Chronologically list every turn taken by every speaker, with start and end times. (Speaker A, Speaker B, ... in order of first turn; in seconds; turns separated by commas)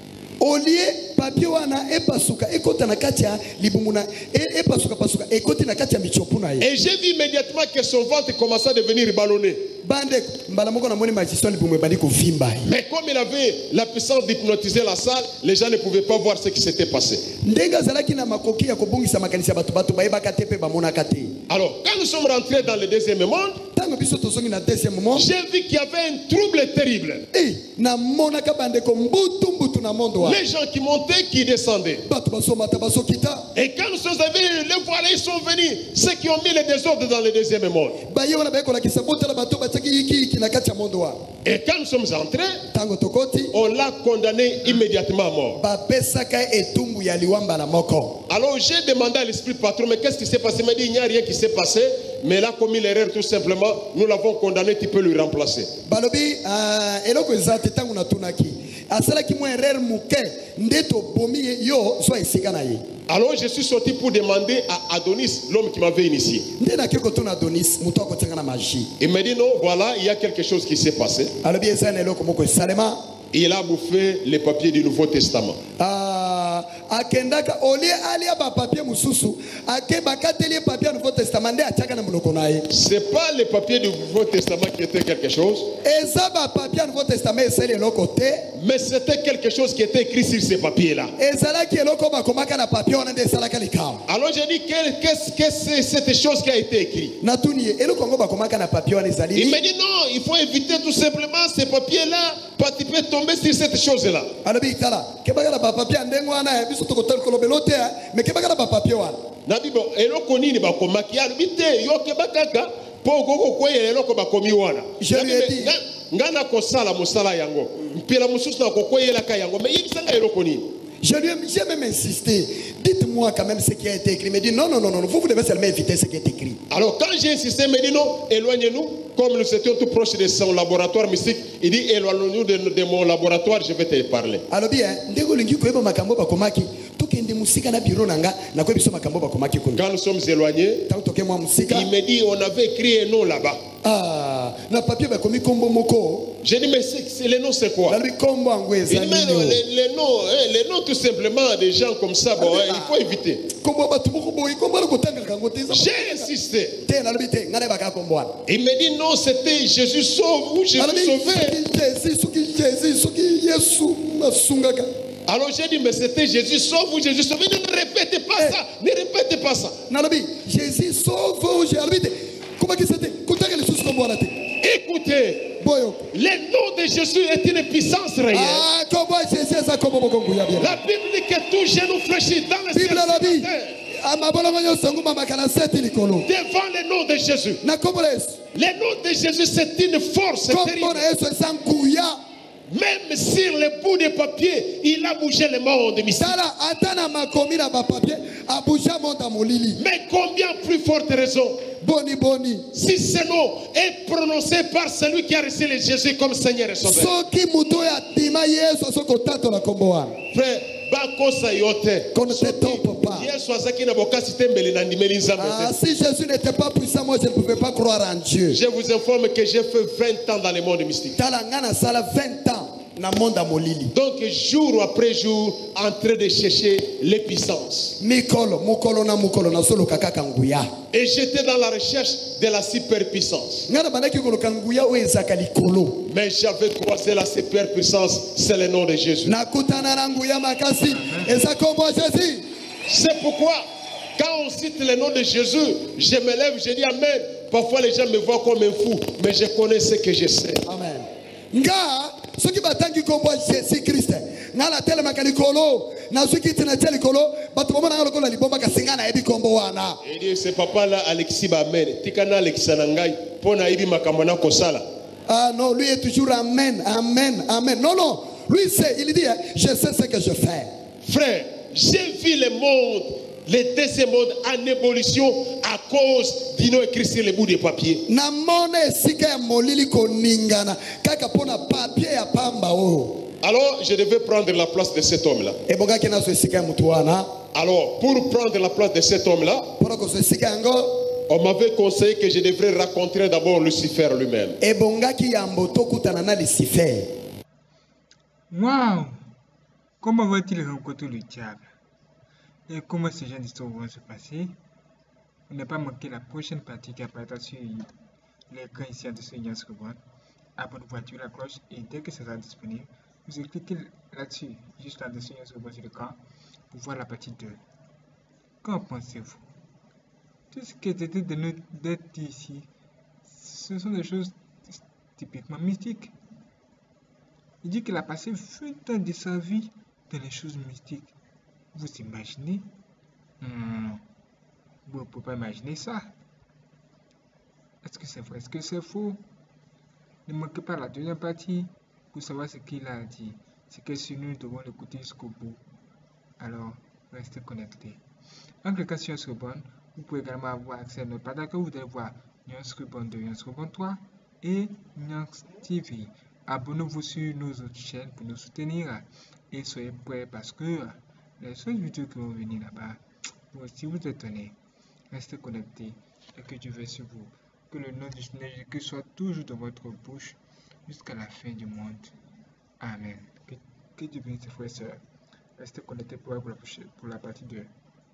Speaker A: 0.4-6.7, Speaker B: 6.6-9.6, Speaker A: 9.8-12.7, Speaker B: 12.6-17.3, Speaker A: 17.4-21.4, Speaker B: 21.5-23.6, Speaker A: 23.7-25.3, Speaker B: 25.1-27.3, Speaker A: 27.3-30.4, Speaker B: 30.2-32.0, Speaker A: 32.0-33.5, Speaker B: 33.5-38.0, Speaker A: 38.0-41.2, Speaker B: 41.4-42.6, Speaker A: 42.7-43.5, Speaker B: 43.5-45.6, Speaker A: 45.6-48.2, Speaker B: 48.3-55.7, Speaker A: 55.9-62.9, Speaker B: 63.1-66.5, Speaker A: 66.6-68.9, Speaker B: 69.0-71.3, Speaker A: 71.4-73.0, Speaker B: 73.3-75.6, Speaker A: 75.8-82.7, Speaker B: 82.7-85.7, Speaker A: 85.8-88.5, Speaker B: 88.5-91.1, Speaker A: 91.2-94.0, Speaker B: 94.1-97.2, Speaker A: 97.2-99.6, Speaker B: 99.3-104.3, Speaker A: 104.4-109.2, Speaker B: 109.5-120.7, Speaker A: 115.0-115.8, Speaker A: 121.0-126.6, Speaker B: 126.7-134.4, Speaker A: 134.5-139.8, Speaker B: 139.8-140.8, Speaker A: 140.9-141.9, Speaker B: 141.7-143.6, Speaker A: 143.8-146.3, Speaker B: 146.4-148.0, Speaker A: 147.9-149.6, Speaker B: 148.9-153.4, Speaker A: 152.4-152.9, Speaker A: 153.5-156.3, Speaker B: 155.7-156.8, Speaker A: 156.8-158.3, Speaker B: 158.5-161.6, Speaker A: 160.8-164.9, Speaker B: 165.3-169.8, Speaker A: 169.9-174.5, Speaker B: 174.6-175.6, Speaker A: 175.6-176.1, Speaker B: 176.1-178.7, Speaker A: 178.3-180.8, Speaker B: 180.6-183.8, Speaker A: 182.7-186.3, Speaker B: 186.2-187.6, Speaker A: 187.6-188.4, Speaker B: 188.5-191.1, Speaker A: 190.5-192.2, Speaker B: 192.7-196.3, Speaker A: 196.1-199.8, Speaker B: 199.8-201.7, Speaker A: 201.8-202.7, Speaker B: 202.7-207.1, Speaker A: 206.8-210.2, Speaker B: 210.3-215.7, Speaker A: 212.1-213.3, Speaker A: 215.4-218.6, Speaker B: 218.5-221.2, Speaker A: 221.2-223.9, Speaker B: 223.9-228.0, Speaker A: 228.0-230.7, Speaker B: 230.9-233.7, Speaker A: 233.7-236.1, Speaker B: 236.1-239.3, Speaker A: 239.2-242.4, Speaker C: 240.9-241.3, Speaker B: 242.9-243.6, Speaker B: 244.2-250.6, Speaker A: 250.6-260.0, Speaker B: 260.0-264.8, Speaker A: 265.3-270.7, Speaker B: 271.1-278.0, Speaker A: 278.1-283.2, Speaker B: 283.4-285.6, Speaker A: 285.7-287.3, Speaker B: 287.5-289.7, Speaker A: 289.8-291.1, Speaker B: 291.3-294.6, Speaker A: 294.6-297.1, Speaker C: 298.5-299.2, Speaker C: 300.0-301.7, Speaker C: 302.7-304.6, Speaker C: 305.5-307.9, Speaker C: 308.5-310.0, Speaker C: 310.6-316.2, Speaker C: 316.7-317.6, Speaker C: 318.6-319.4, Speaker C: 320.5-322.7, Speaker C: 323.2-326.1, Speaker C: 327.6-331.1, Speaker C: 331.7-332.7, Speaker C: 333.4-334.0, Speaker C: 334.9-336.1, Speaker C: 337.8-339.2, Speaker C: 340.2-345.6, Speaker C: 346.4-348.0, Speaker C: 348.6-364.6, Speaker C: 365.1-372.1, Speaker C: 372.8-375.0, Speaker C: 375.6-377.7